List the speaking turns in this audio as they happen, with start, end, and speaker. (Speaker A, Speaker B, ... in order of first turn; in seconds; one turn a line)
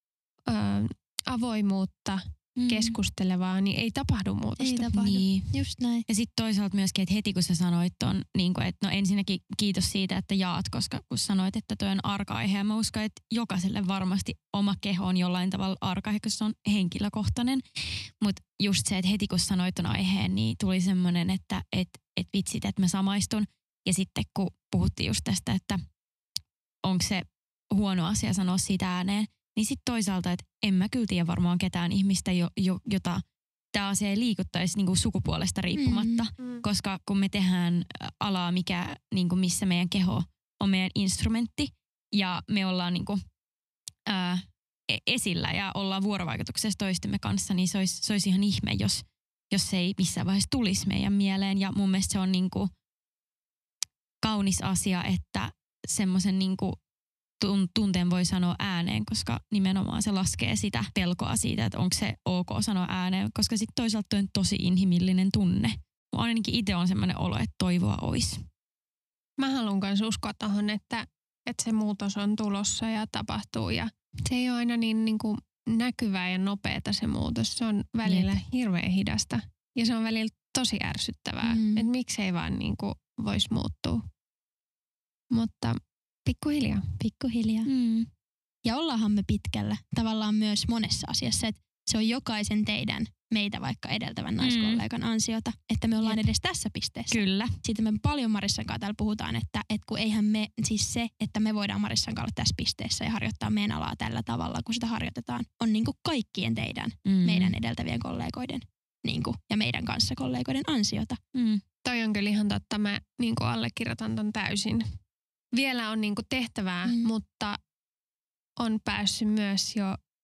Speaker A: 0.5-5.2
Speaker B: 2.6-3.0
Speaker C: 4.6-6.0
Speaker B: 4.9-5.6
Speaker B: 6.1-25.8
Speaker B: 26.8-43.2
Speaker C: 35.8-36.3
Speaker A: 36.4-36.6
Speaker B: 44.1-52.7
Speaker B: 54.2-56.8
Speaker B: 57.4-68.5
Speaker A: 69.4-84.0
Speaker C: 81.4-81.9
Speaker A: 85.3-86.9
Speaker C: 87.0-87.7
Speaker B: 87.7-88.1
Speaker C: 88.7-111.2
Speaker B: 94.4-94.8
Speaker B: 97.1-97.5
Speaker B: 107.0-107.6
Speaker B: 111.3-111.6
Speaker A: 111.8-114.9
Speaker A: 115.5-117.6
Speaker A: 118.6-120.0